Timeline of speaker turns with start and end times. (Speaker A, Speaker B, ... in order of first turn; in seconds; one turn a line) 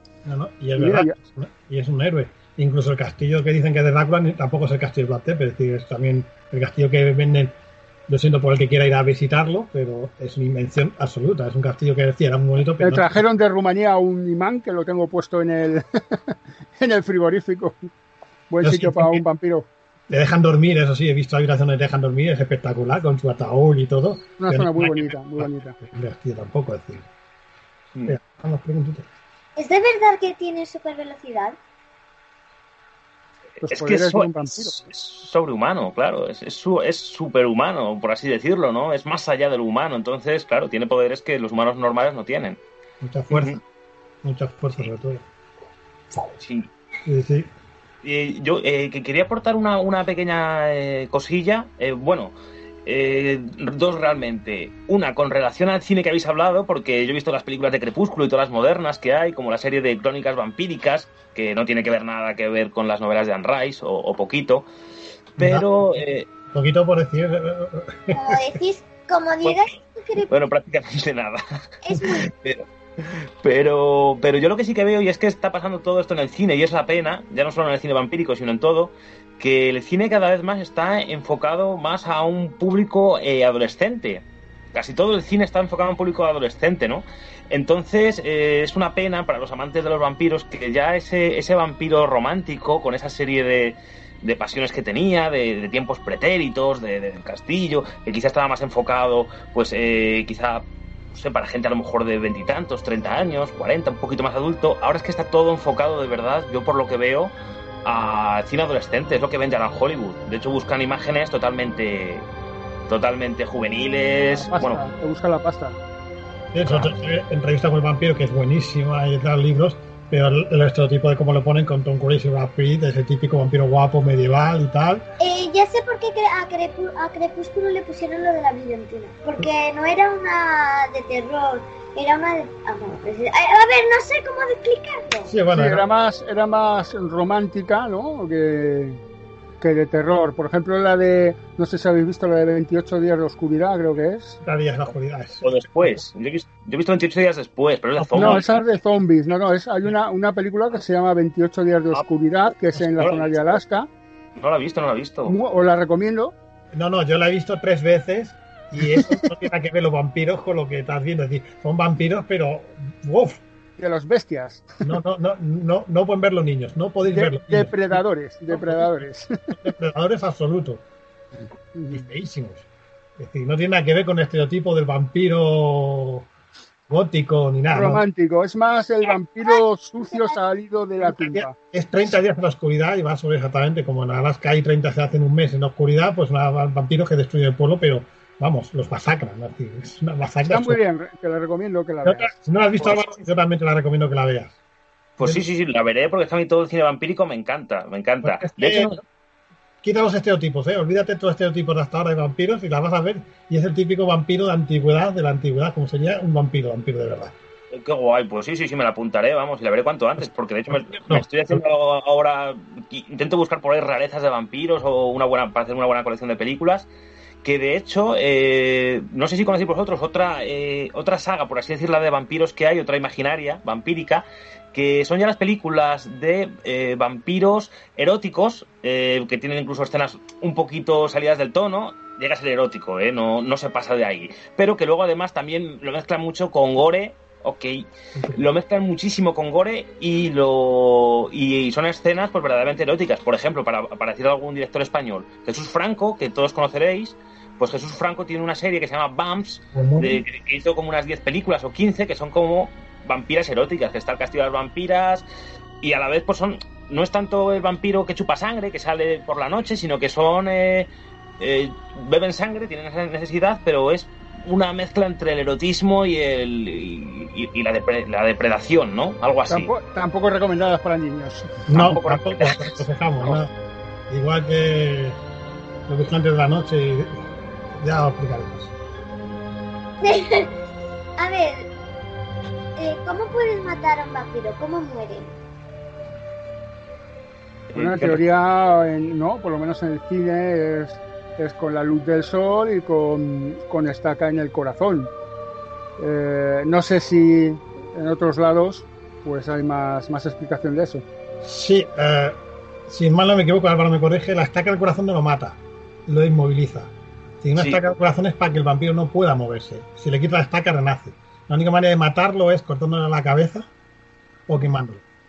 Speaker A: 0.2-7.5
Speaker B: 0.8-1.1
Speaker A: 8.1-13.2
Speaker B: 12.8-17.9
Speaker B: 18.5-19.7
Speaker A: 18.6-19.2
Speaker A: 20.1-27.1
Speaker B: 24.3-25.8
Speaker A: 28.1-29.1
Speaker C: 29.6-31.6
Speaker D: 33.6-42.6
Speaker B: 33.6-34.8
Speaker A: 43.0-43.6
Speaker D: 43.3-43.6
Speaker A: 44.2-45.2
Speaker D: 46.4-46.7
Speaker A: 47.0-47.5
Speaker D: 48.0-52.3
Speaker D: 52.9-64.7
Speaker D: 65.4-66.3
Speaker A: 65.4-65.7
Speaker A: 66.5-68.5
Speaker C: 68.1-70.3
Speaker D: 69.4-69.8
Speaker D: 70.3-71.4
Speaker C: 71.8-72.3
Speaker D: 72.0-84.2
Speaker D: 84.7-107.3
Speaker D: 107.8-112.3
Speaker D: 112.9-114.8
Speaker B: 114.3-115.8
Speaker A: 116.5-125.0
Speaker C: 125.2-135.3
Speaker A: 135.3-135.8
Speaker B: 135.5-139.0
Speaker B: 139.6-144.4
Speaker A: 144.4-146.0
Speaker D: 145.4-148.6
Speaker A: 148.1-148.4
Speaker B: 148.1-153.9
Speaker D: 152.8-153.6
Speaker D: 154.4-155.3
Speaker B: 155.2-156.3
Speaker A: 156.7-163.4
Speaker B: 158.8-159.3
Speaker B: 163.8-164.9
Speaker A: 164.8-169.0
Speaker B: 167.0-169.6
Speaker A: 169.6-170.8
Speaker B: 171.7-172.1
Speaker A: 171.9-172.7
Speaker A: 173.2-176.3
Speaker A: 176.9-178.0
Speaker B: 177.7-181.5
Speaker C: 180.1-180.4
Speaker A: 181.2-190.8
Speaker B: 190.4-192.3
Speaker A: 192.0-194.5
Speaker D: 195.2-198.9
Speaker A: 195.2-195.4
Speaker A: 198.2-199.0
Speaker A: 199.8-207.3
Speaker D: 207.7-216.9
Speaker A: 210.7-211.6
Speaker D: 217.4-255.2
Speaker A: 238.2-238.4
Speaker A: 249.7-250.2
Speaker D: 255.8-269.7
Speaker B: 269.5-271.6
Speaker A: 271.7-273.5
Speaker D: 271.7-272.8
Speaker A: 274.1-275.2
Speaker A: 275.9-278.7
Speaker C: 280.0-280.5
Speaker C: 281.2-281.7
Speaker C: 282.8-285.4
Speaker D: 287.7-288.2
Speaker B: 287.7-295.1
Speaker B: 296.0-301.0
Speaker A: 301.4-306.9
Speaker A: 307.4-313.7
Speaker D: 307.6-307.8
Speaker A: 314.5-315.0